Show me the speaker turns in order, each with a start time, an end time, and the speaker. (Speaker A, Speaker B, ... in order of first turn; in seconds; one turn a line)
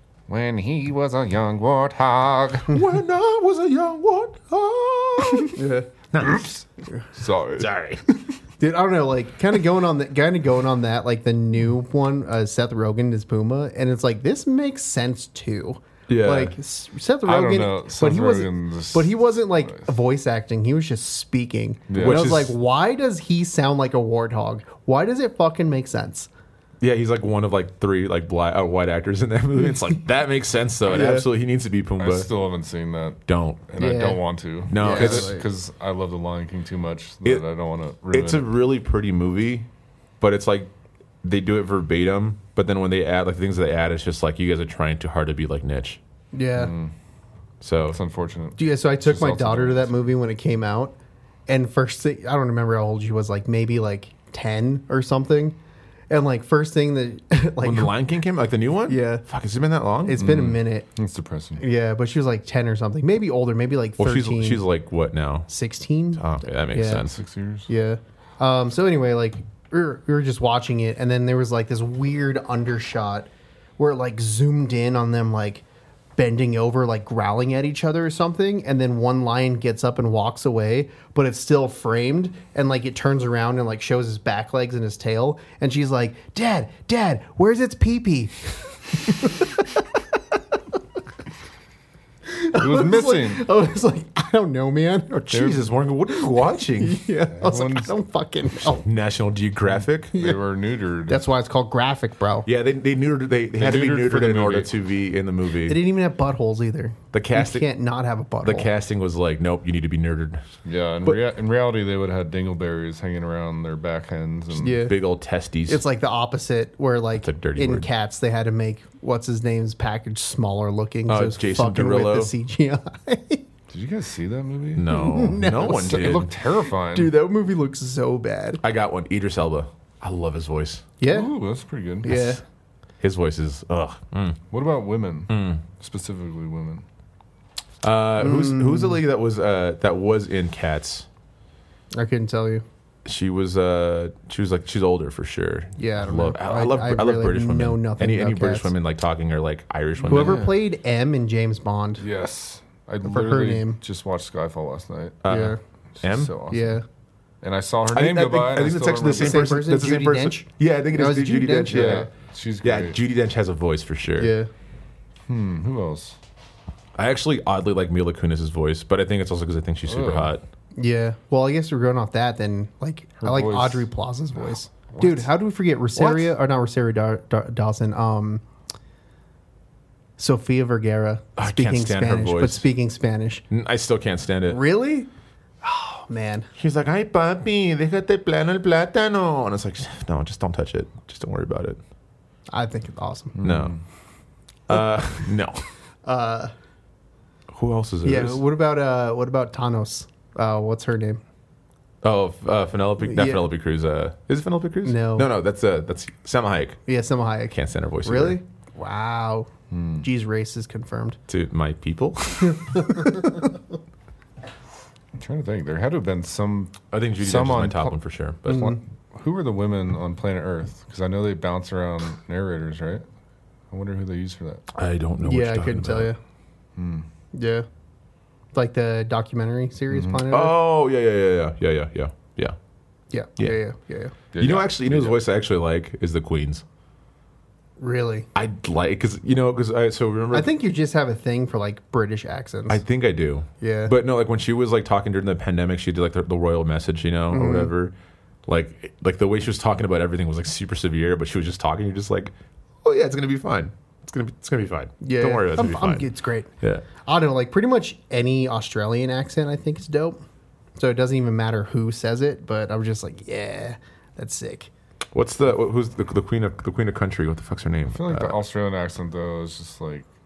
Speaker A: 0.3-2.8
Speaker B: 2.7-5.6
Speaker C: 5.5-5.9
Speaker B: 6.1-6.5
Speaker A: 6.2-8.2
Speaker B: 7.6-8.0
Speaker C: 8.6-26.3
Speaker B: 16.1-16.6
Speaker A: 17.2-19.9
Speaker A: 21.9-22.3
Speaker B: 22.0-22.5
Speaker B: 26.8-32.3
Speaker C: 30.9-31.3
Speaker A: 32.0-38.5
Speaker B: 33.3-33.6
Speaker C: 33.8-34.2
Speaker B: 34.7-35.3
Speaker C: 34.7-35.4
Speaker B: 38.1-39.7
Speaker B: 40.2-40.7
Speaker B: 41.2-46.0
Speaker C: 46.3-46.7
Speaker A: 46.5-46.9
Speaker B: 47.6-48.0
Speaker A: 47.9-50.0
Speaker C: 48.6-50.9
Speaker C: 51.5-55.6
Speaker C: 56.1-57.9
Speaker B: 57.6-60.4
Speaker C: 58.9-59.2
Speaker C: 60.0-60.9
Speaker A: 60.2-61.6
Speaker C: 61.6-64.6
Speaker B: 64.0-65.5
Speaker C: 65.5-67.1
Speaker B: 66.2-67.2
Speaker A: 67.0-67.7
Speaker C: 67.7-75.6
Speaker C: 76.2-89.6
Speaker C: 92.3-95.5
Speaker A: 92.5-93.4
Speaker B: 95.1-97.0
Speaker C: 96.7-98.8
Speaker A: 97.3-97.9
Speaker B: 98.6-100.1
Speaker A: 100.1-101.2
Speaker C: 100.1-100.4
Speaker C: 101.1-102.5
Speaker B: 102.5-105.8
Speaker A: 103.6-104.7
Speaker C: 105.7-108.7
Speaker B: 107.1-107.7
Speaker B: 108.4-110.4
Speaker A: 110.6-114.8
Speaker C: 114.6-114.9
Speaker B: 114.7-115.8
Speaker C: 115.7-123.4
Speaker B: 117.2-117.9
Speaker B: 121.1-122.3
Speaker A: 123.7-124.9
Speaker B: 124.7-126.3
Speaker C: 124.9-126.2
Speaker A: 125.6-127.1
Speaker C: 126.9-128.6
Speaker B: 128.6-130.9
Speaker C: 131.0-131.3
Speaker A: 131.1-132.2
Speaker C: 132.0-132.4
Speaker B: 133.0-134.4
Speaker A: 134.5-136.8
Speaker B: 135.3-135.6
Speaker B: 137.8-141.1
Speaker C: 138.2-139.0
Speaker C: 141.9-142.6
Speaker B: 143.0-150.5
Speaker C: 145.8-148.7
Speaker A: 150.0-150.5
Speaker C: 150.1-152.0
Speaker A: 152.0-155.3
Speaker C: 153.0-153.8
Speaker B: 155.2-156.3
Speaker C: 155.3-155.6
Speaker A: 156.0-156.8
Speaker C: 156.5-156.8
Speaker A: 157.4-159.6
Speaker B: 157.9-162.1
Speaker C: 159.1-162.1
Speaker A: 161.7-163.0
Speaker B: 162.6-164.3
Speaker C: 164.2-164.5
Speaker A: 165.3-166.2
Speaker B: 167.0-170.4
Speaker A: 169.9-170.3
Speaker C: 170.8-178.4
Speaker A: 173.2-175.3
Speaker B: 176.0-176.2
Speaker C: 180.2-183.4
Speaker B: 181.4-182.7
Speaker B: 183.5-184.6
Speaker C: 184.5-185.1
Speaker C: 185.6-186.5
Speaker B: 186.6-191.8
Speaker C: 192.5-193.4
Speaker A: 193.3-193.8
Speaker B: 193.4-193.7
Speaker B: 194.7-195.6
Speaker C: 196.0-196.5
Speaker B: 197.5-198.4
Speaker C: 198.0-201.2
Speaker B: 202.0-206.8
Speaker C: 203.0-203.4
Speaker C: 204.8-205.3
Speaker C: 206.8-209.5
Speaker B: 207.5-208.4
Speaker A: 209.7-210.1
Speaker C: 210.0-211.2
Speaker B: 211.3-213.3
Speaker C: 212.5-213.5
Speaker A: 215.2-217.9
Speaker B: 216.9-218.7
Speaker C: 218.5-218.8
Speaker A: 218.5-223.0
Speaker A: 223.7-224.7
Speaker B: 224.7-226.1
Speaker C: 225.2-226.2
Speaker A: 226.8-227.1
Speaker C: 227.3-227.7
Speaker C: 228.5-230.6
Speaker A: 229.9-230.2
Speaker B: 230.3-232.6
Speaker C: 233.1-234.1
Speaker A: 234.3-235.2
Speaker B: 234.4-236.6
Speaker C: 237.8-238.3
Speaker B: 238.3-240.5
Speaker C: 240.3-242.8
Speaker B: 242.7-247.9
Speaker C: 243.6-243.9
Speaker C: 247.3-247.7
Speaker B: 248.5-256.1
Speaker C: 255.0-256.5
Speaker C: 257.1-260.2
Speaker C: 260.8-264.7
Speaker B: 265.1-268.4
Speaker A: 267.9-270.1